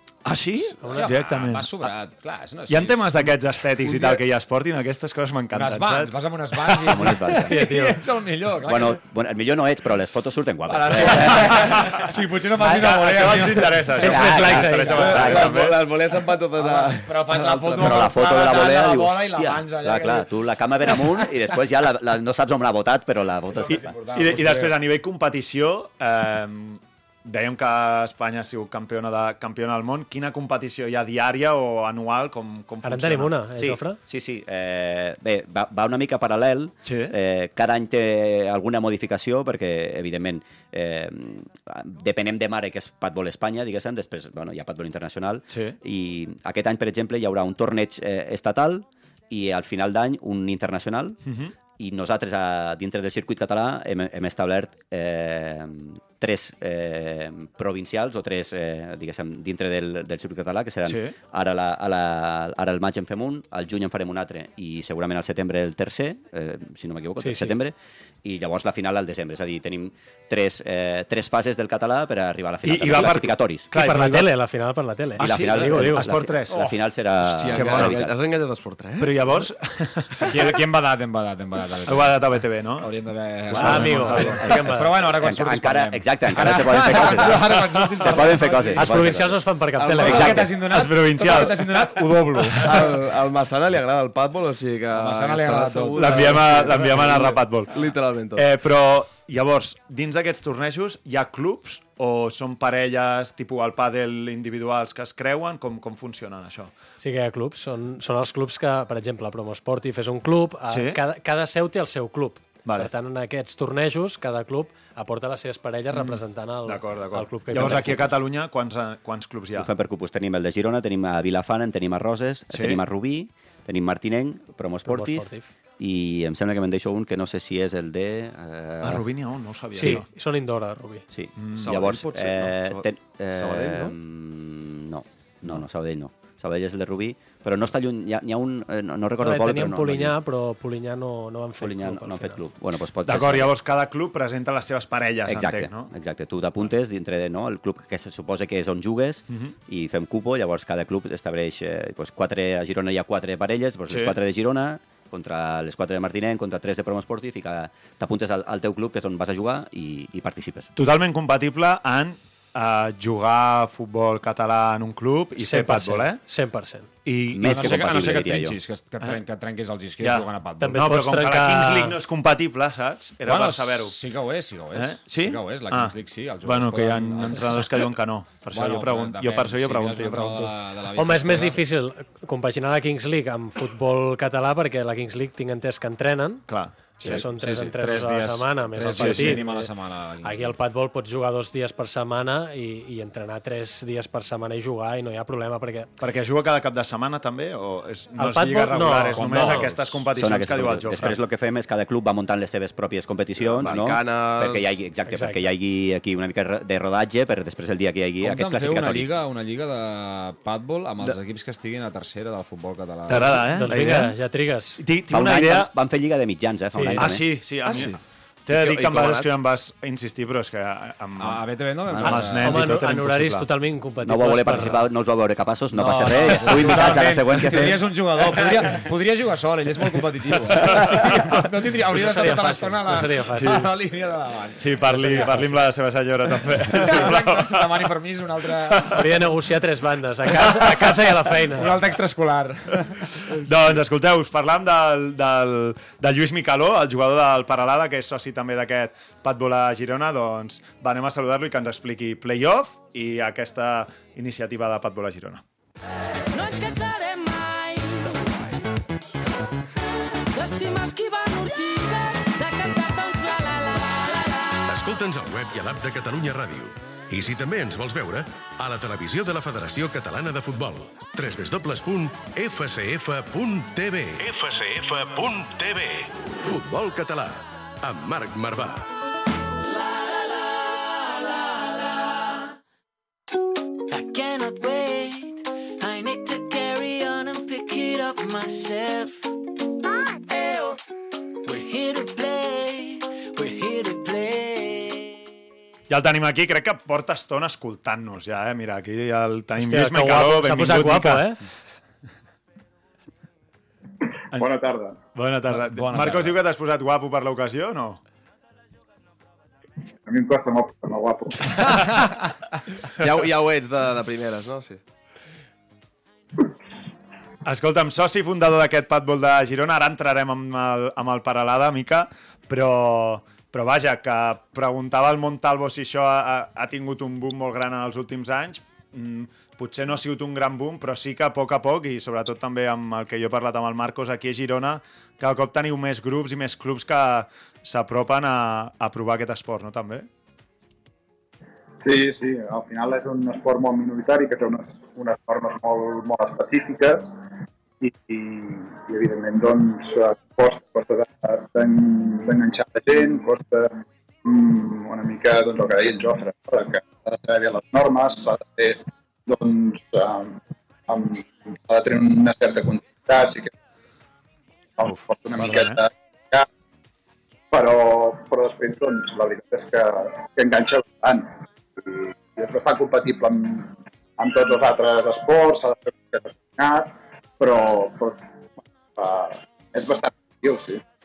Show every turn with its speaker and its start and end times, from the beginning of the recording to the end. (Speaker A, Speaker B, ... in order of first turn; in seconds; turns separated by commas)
Speaker A: 0.2-1.8, Speaker B: 0.8-1.1, Speaker C: 0.8-3.3, Speaker A: 2.7-6.2, Speaker C: 5.5-9.0, Speaker D: 6.8-7.7, Speaker B: 7.5-7.8, Speaker D: 8.6-11.8, Speaker C: 10.7-15.4, Speaker A: 11.3-12.1, Speaker A: 12.6-15.8, Speaker B: 14.0-15.3, Speaker D: 14.0-15.5, Speaker E: 14.9-18.0, Speaker C: 16.6-21.3, Speaker D: 17.8-24.0, Speaker C: 23.5-24.8, Speaker A: 23.7-33.4, Speaker B: 32.8-34.0, Speaker D: 33.6-51.2, Speaker A: 36.8-37.1, Speaker A: 45.5-45.8, Speaker A: 51.2-51.5, Speaker D: 51.8-73.7, Speaker A: 60.8-61.1, Speaker B: 67.2-67.5, Speaker A: 72.6-74.3, Speaker B: 73.7-76.1, Speaker A: 75.2-76.7, Speaker D: 75.2-78.1, Speaker E: 77.2-79.4, Speaker A: 77.6-77.9, Speaker A: 79.0-80.6, Speaker C: 80.2-89.1, Speaker A: 81.9-82.9, Speaker A: 83.5-84.7, Speaker B: 83.5-84.9, Speaker D: 84.4-89.4, Speaker A: 87.5-88.0, Speaker B: 88.7-90.5, Speaker E: 89.8-90.3, Speaker C: 90.0-92.9, Speaker D: 90.0-90.5, Speaker A: 90.6-92.8, Speaker E: 92.5-98.5, Speaker C: 94.9-97.2, Speaker A: 96.0-97.7, Speaker A: 98.3-106.7, Speaker B: 107.0-118.1, Speaker A: 110.7-111.0, Speaker A: 112.6-112.9, Speaker A: 115.9-119.7, Speaker D: 119.5-125.3, Speaker A: 122.5-122.8, Speaker B: 124.8-125.5, Speaker D: 125.8-129.0, Speaker A: 128.8-130.1, Speaker B: 129.7-131.0, Speaker D: 131.1-140.1, Speaker A: 131.3-131.6, Speaker E: 131.6-133.9, Speaker B: 139.2-142.4, Speaker D: 141.6-143.5, Speaker A: 143.0-145.9, Speaker D: 145.2-160.7, Speaker A: 153.9-154.2, Speaker A: 160.8-166.2, Speaker B: 165.4-166.9, Speaker A: 167.0-167.9, Speaker D: 167.3-168.6, Speaker C: 167.4-170.9, Speaker A: 170.0-173.9, Speaker B: 170.6-172.0, Speaker C: 173.2-177.8, Speaker A: 174.7-180.5, Speaker C: 178.5-181.6, Speaker B: 181.0-189.7, Speaker A: 186.5-187.2, Speaker C: 187.0-190.6, Speaker A: 188.8-189.4, Speaker B: 190.2-195.9, Speaker A: 196.0-201.2, Speaker B: 198.2-199.7, Speaker C: 199.1-199.7, Speaker D: 200.1-209.1, Speaker E: 203.4-204.7, Speaker B: 205.1-205.4, Speaker C: 208.2-213.5, Speaker A: 213.1-214.1, Speaker B: 213.5-214.8, Speaker A: 214.8-215.7, Speaker D: 215.1-217.3, Speaker A: 216.9-223.5, Speaker E: 217.7-217.9, Speaker E: 218.5-219.3, Speaker C: 221.2-222.7, Speaker B: 222.0-224.8, Speaker D: 224.0-228.4, Speaker C: 225.7-235.5, Speaker A: 230.6-231.4, Speaker B: 231.9-233.6, Speaker A: 234.6-237.8, Speaker B: 235.0-235.3, Speaker C: 236.7-239.0, Speaker A: 238.7-239.1, Speaker B: 239.0-241.7, Speaker A: 240.4-240.9, Speaker C: 241.5-243.1, Speaker A: 243.2-255.4, Speaker F: 256.3-258.4, Speaker F: 260.3-264.6, Speaker G: 264.6-278.9, Speaker F: 283.9-289.3, Speaker F: 290.1-290.8, Speaker F: 291.4-295.2, Speaker A: 295.9-301.3, Speaker B: 299.6-301.4, Speaker H: 304.3-305.0, Speaker A: 305.1-308.0, Speaker C: 305.5-306.4, Speaker H: 310.1-311.6, Speaker E: 313.0-314.8, Speaker A: 317.4-340.1, Speaker H: 341.8-347.2, Speaker H: 347.8-363.5, Speaker H: 364.8-366.4, Speaker A: 364.8-365.8, Speaker H: 367.5-378.2, Speaker H: 379.0-380.8